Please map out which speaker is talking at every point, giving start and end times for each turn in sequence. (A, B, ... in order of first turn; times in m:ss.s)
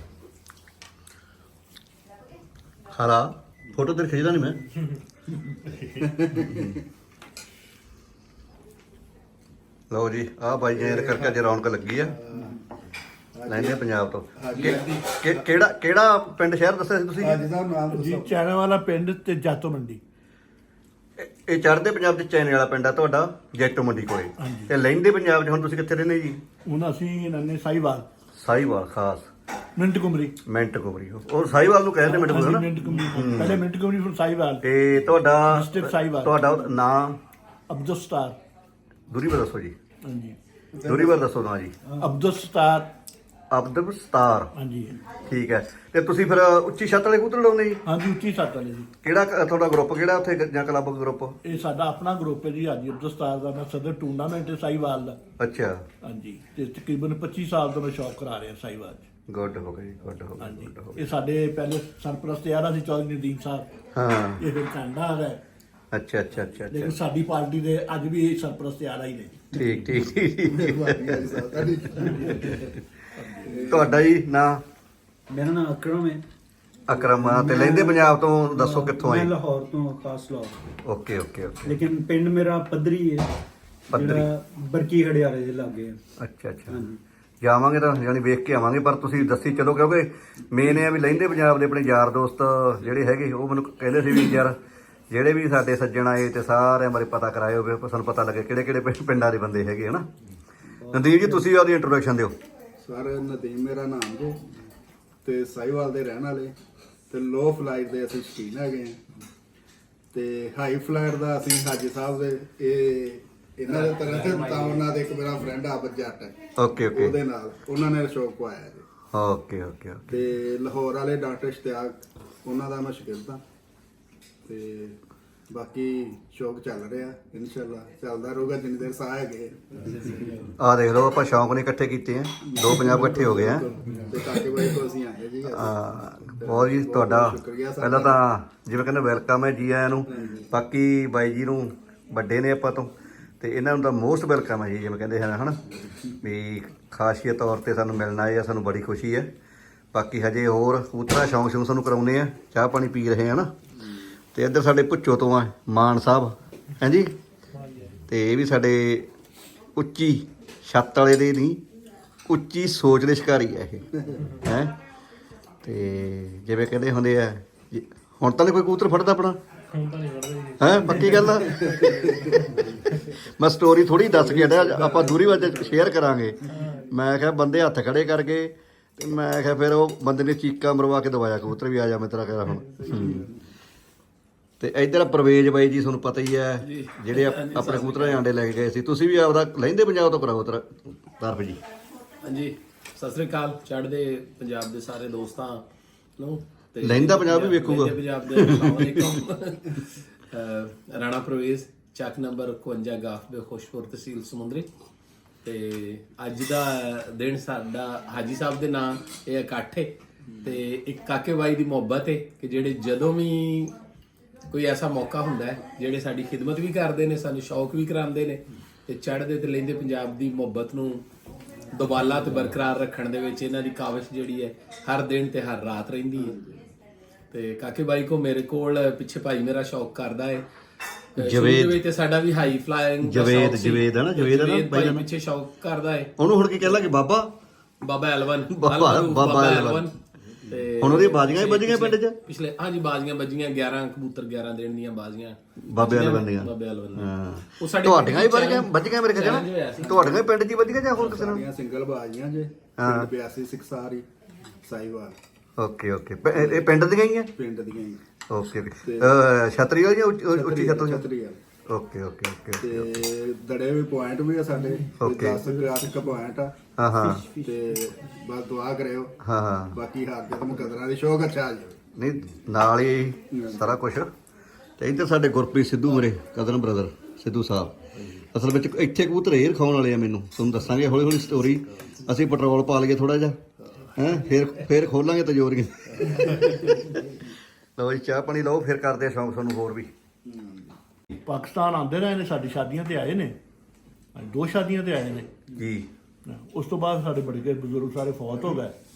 0:02.9-0:04.6 A
0:06.0-0:06.8 B
0:06.4-0:06.7 A
0:09.9-0:12.2 A
0:10.6-0:11.4 B
0:12.1-0:12.7 B
0:13.4-0:13.8 B
0:13.5-0:17.4 A
0:14.4-0:15.5 B
0:17.2-0:18.3 B
0:17.9-0:20.0 C
0:21.2-0:26.4 A
0:24.4-0:24.7 C
0:26.7-0:28.1 C
0:28.4-0:29.3 A
0:29.8-0:30.4 C
0:30.5-0:33.6 A
0:32.0-0:34.7 C
0:34.6-0:37.2 A
0:35.4-0:36.5 C
0:37.7-0:38.4 C
0:39.1-0:39.8 A
0:40.0-0:40.4 C
0:40.8-0:41.2 B
0:40.8-0:41.8 A
0:42.0-0:42.9 C
0:43.5-0:44.5 A
0:44.6-0:45.1 C
0:45.2-0:47.8 A
0:47.9-0:48.9 C
0:49.0-0:51.4 A
0:51.4-0:55.2 C
0:55.4-0:55.9 A
0:56.0-0:59.1 C
0:59.3-1:01.1 A
1:00.4-1:03.7 C
1:04.0-1:04.4 A
1:04.4-1:05.4 C
1:05.9-1:07.0 A
1:06.7-1:09.7 C
1:09.5-1:11.5 A
1:10.4-1:12.6 B
1:12.1-1:12.8 A
1:13.2-1:13.8 C
1:13.5-1:14.0 B
1:13.7-1:14.6 A
1:15.3-1:16.2 D
1:16.9-1:19.3 A
1:17.0-1:20.7 D
1:20.8-1:21.8 A
1:21.6-1:23.3 D
1:23.9-1:24.3 A
1:23.9-1:26.0 D
1:26.2-1:26.9 A
1:26.7-1:27.0 D
1:27.4-1:34.6 A
1:35.1-1:40.1 A
1:40.8-1:41.3 D
1:40.9-1:42.4 A
1:42.8-1:44.4 B
1:45.2-1:46.5 B
1:47.1-1:49.0 B
1:50.1-1:56.4 B
1:53.7-1:55.0 E
1:56.6-1:57.2 A
1:56.9-1:58.9 B
1:59.1-2:00.2 A
2:00.1-2:03.4 B
2:04.4-2:10.5 B
2:10.6-2:13.7 A
2:12.5-2:15.8 B
2:15.5-2:25.6 A
2:16.4-2:18.2 B
2:20.1-2:20.5 B
2:26.2-2:29.3 A
2:29.9-2:33.5 A
2:34.3-2:37.2 A
2:37.6-2:37.9 C
2:38.1-2:39.1 A
2:39.8-2:41.6 A
2:42.3-2:44.8 A
2:45.6-2:49.4 A
2:49.8-2:51.2 E
2:50.6-2:52.3 A
2:51.4-2:53.0 B
2:53.0-3:03.3 A
2:54.0-2:55.9 B
3:02.8-3:03.4 B
3:04.6-3:11.6 A
3:06.6-3:08.2 E
3:12.2-3:15.6 E
3:16.2-3:24.7 E
3:16.8-3:19.2 A
3:25.4-3:33.8 E
3:34.5-3:41.0 E
3:41.7-3:46.4 E
3:46.3-3:46.6 B
3:47.3-3:50.4 E
3:51.2-3:56.1 E
3:51.2-3:51.8 A
3:53.0-3:55.1 A
3:56.2-3:57.3 A
3:57.8-4:00.0 E
3:58.5-3:59.9 A
4:00.5-4:10.2 E
4:00.8-4:02.2 A
4:05.6-4:11.4 A
4:09.8-4:10.1 B
4:11.0-4:14.1 B
4:12.8-4:13.1 A
4:14.6-4:15.2 B
4:15.6-4:17.3 A
4:16.4-4:16.7 B
4:17.4-4:18.0 B
4:18.3-4:21.1 A
4:18.8-4:19.2 B
4:20.3-4:21.4 B
4:21.7-4:22.9 A
4:22.6-4:26.6 B
4:25.0-4:25.4 A
4:26.8-4:27.3 A
4:27.3-4:29.2 B
4:29.2-4:29.8 A
4:29.7-4:31.8 B
4:32.0-4:34.1 A
4:33.3-4:33.7 B
4:34.8-4:43.4 A
4:43.9-4:47.0 A
4:46.0-4:47.1 B
4:47.8-4:49.9 A
4:50.2-4:50.8 B
4:51.3-4:53.4 C
4:54.2-4:55.3 C
4:55.5-4:55.9 A
4:56.3-4:58.8 C